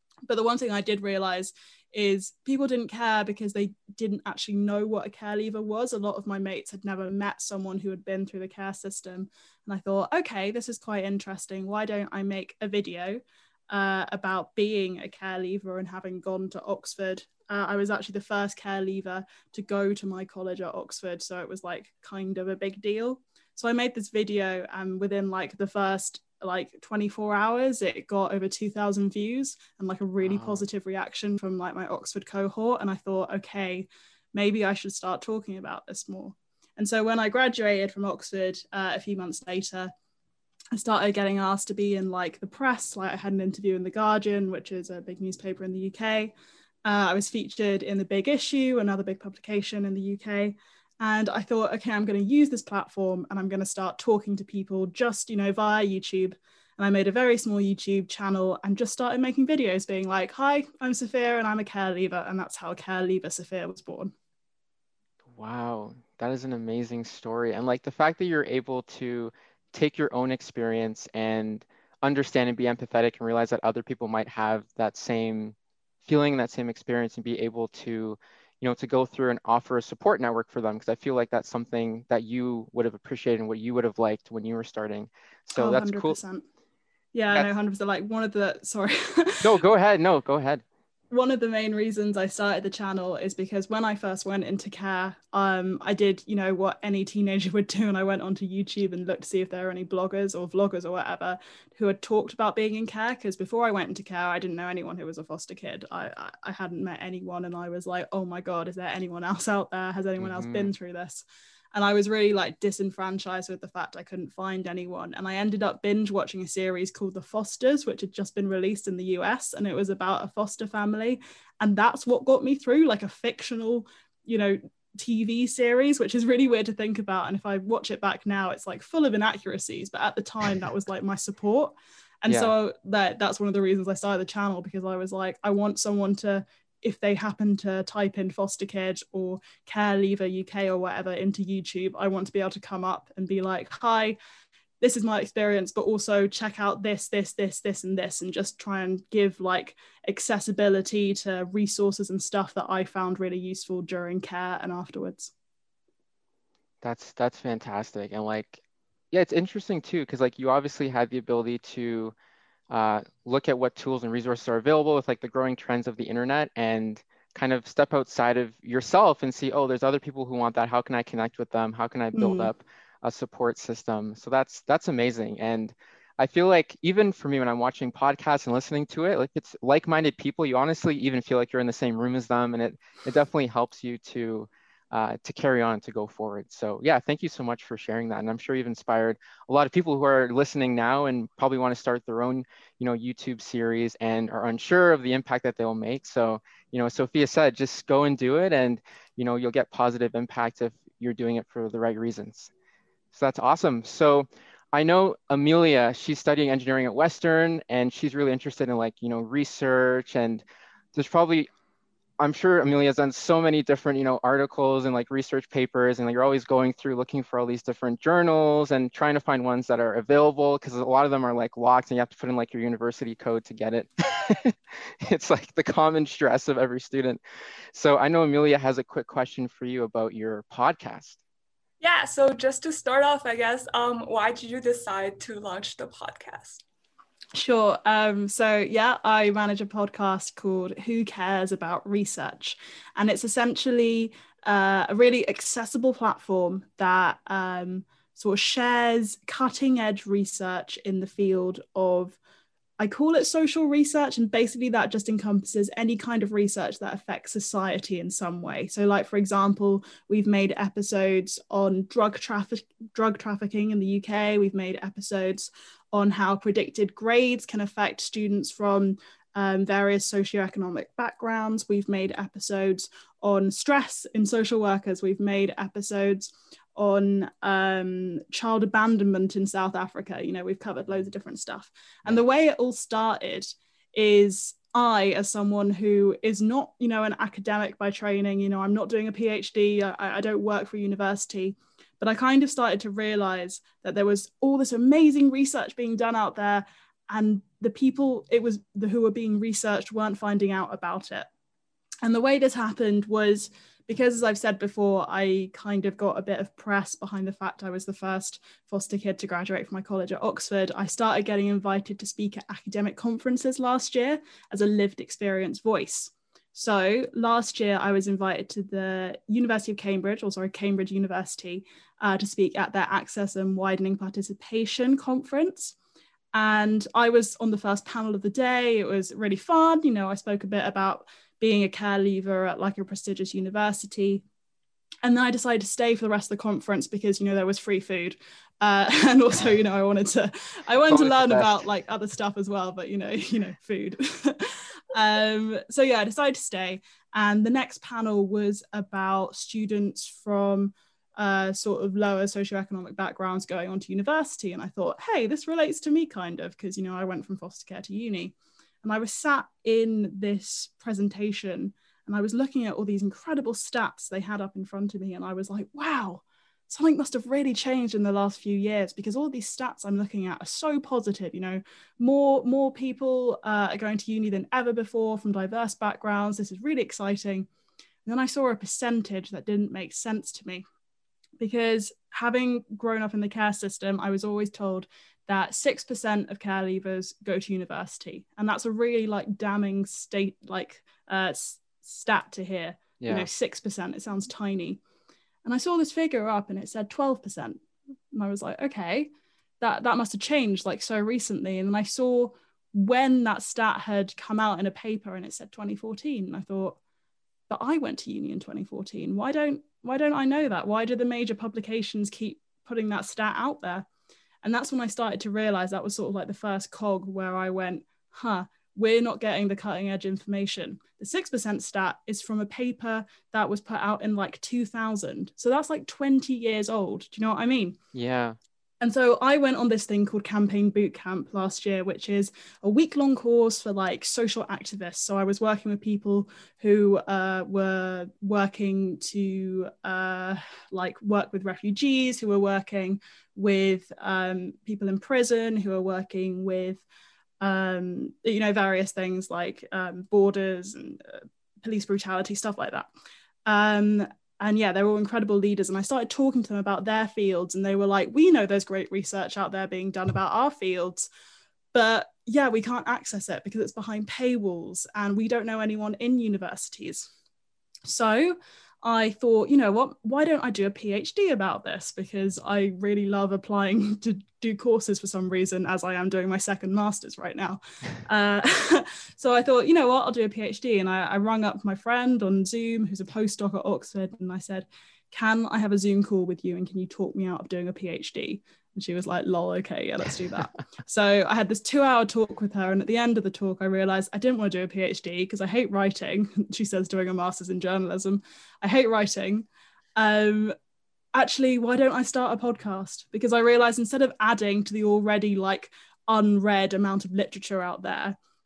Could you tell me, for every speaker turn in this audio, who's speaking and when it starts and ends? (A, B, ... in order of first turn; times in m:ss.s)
0:00.3-0:39.9 A
0:30.2-0:30.6 B
0:40.8-0:46.3 A
0:46.9-1:04.1 A
1:05.3-1:26.2 B
1:25.6-1:26.4 A
1:27.1-1:29.4 A
1:29.4-1:30.6 B
1:31.1-2:24.2 A
1:50.2-1:50.7 B
2:12.3-2:12.5 B
2:24.8-2:35.3 A
2:36.8-2:38.6 B
2:39.1-2:42.1 B
2:42.7-3:22.5 B
2:52.1-2:52.5 A
3:23.1-3:30.4 B
3:31.0-3:31.5 B
3:32.2-3:47.2 B
3:47.7-3:51.2 B
3:51.8-3:56.6 C
3:57.4-4:12.2 A
4:12.8-5:01.3 A
5:02.0-5:25.8 A
5:26.3-5:34.2 A
5:35.0-6:17.5 A
5:40.9-5:41.6 B
6:18.0-6:20.6 A
6:21.4-6:34.8 A
6:33.0-6:33.3 B
6:35.4-6:46.8 A
6:47.5-6:53.9 A
6:54.4-7:07.8 A
7:07.9-7:08.4 B
7:08.8-7:26.8 A
7:27.4-7:32.9 A
7:33.5-7:41.1 A
7:41.7-7:47.1 A
7:47.9-8:20.5 A
8:21.2-8:28.2 A